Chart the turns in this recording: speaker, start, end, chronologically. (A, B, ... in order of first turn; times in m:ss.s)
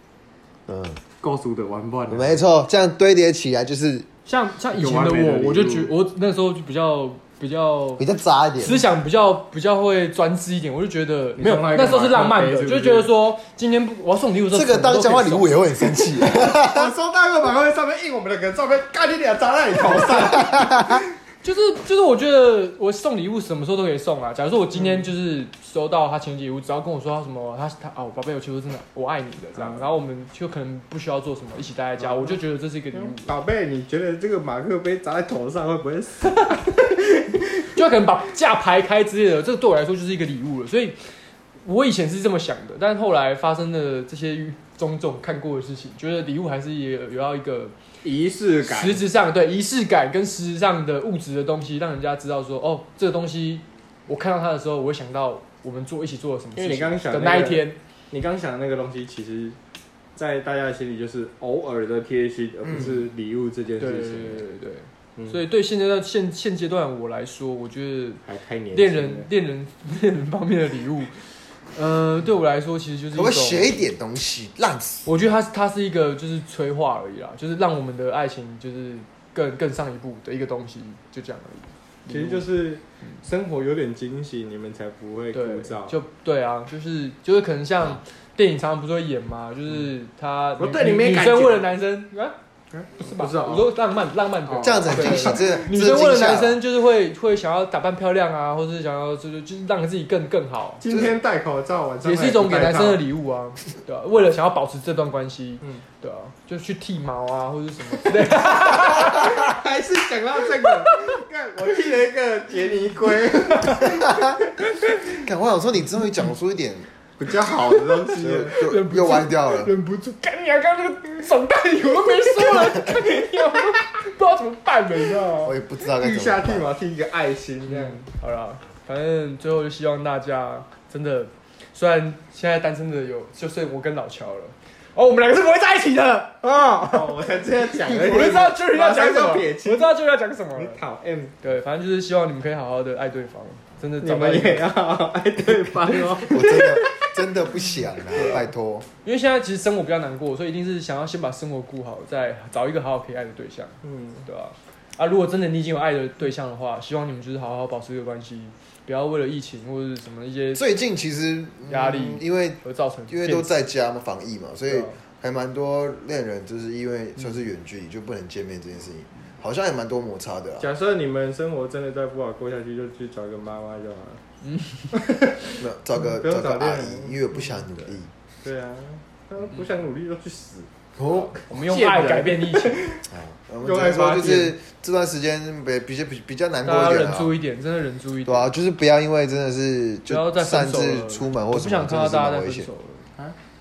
0:00.7-0:01.0 A
0:01.2-0:02.4 B
0:02.1-0:04.1 A
0:04.3-0:08.0 C
0:04.7-0:05.9 B
0:08.0-0:08.8 A
0:08.6-0:16.0 C
0:11.4-0:13.1 B
0:14.5-0:16.9 A
0:16.1-0:21.1 B
0:20.3-0:21.0 A
0:21.4-0:33.3 C
0:29.6-0:29.9 B
0:32.0-0:32.4 B
0:32.9-0:37.7 B
0:37.7-0:41.0 C
0:41.6-0:47.7 C
0:48.0-0:49.1 B
0:48.7-0:57.8 C
0:56.6-0:59.6 B
1:00.2-1:04.5 B
1:03.8-1:08.2 C
1:05.2-1:05.4 B
1:08.2-1:09.3 B
1:08.7-1:11.2 C
1:11.7-1:13.8 C
1:13.1-1:15.1 A
1:15.0-1:22.5 C
1:22.1-1:26.0 B
1:25.3-1:32.4 C
1:30.6-1:31.7 B
1:32.7-1:33.7 B
1:33.0-1:40.9 C
1:34.5-1:35.6 B
1:34.6-1:36.6 A
1:40.8-1:43.0 B
1:42.0-1:49.4 C
1:48.3-1:54.6 B
1:50.6-1:51.2 C
1:54.0-1:54.4 A
1:55.1-1:56.9 A
1:57.2-1:58.7 B
1:58.2-1:59.7 A
1:58.5-2:05.6 C
2:05.4-2:06.7 A
2:05.9-2:08.0 B
2:07.7-2:17.2 C
2:16.8-2:20.0 B
2:17.9-2:20.8 C
2:20.5-2:21.4 B
2:21.4-2:24.7 C
2:24.0-2:26.8 B
2:25.9-2:27.0 C
2:26.3-2:28.9 A
2:29.0-2:40.7 C
2:33.8-2:34.3 B
2:40.5-2:50.7 A
2:41.7-2:43.6 C
2:44.7-2:45.0 C
2:50.6-2:54.2 B
2:54.5-2:55.0 C
2:54.9-2:57.7 B
2:55.6-2:58.1 A
2:58.4-3:00.7 B
3:01.0-3:01.3 A
3:01.3-3:03.0 B
3:01.4-3:02.8 C
3:03.1-3:07.4 A
3:03.6-3:04.6 B
3:06.6-3:08.5 C
3:08.3-3:12.7 A
3:10.1-3:13.1 C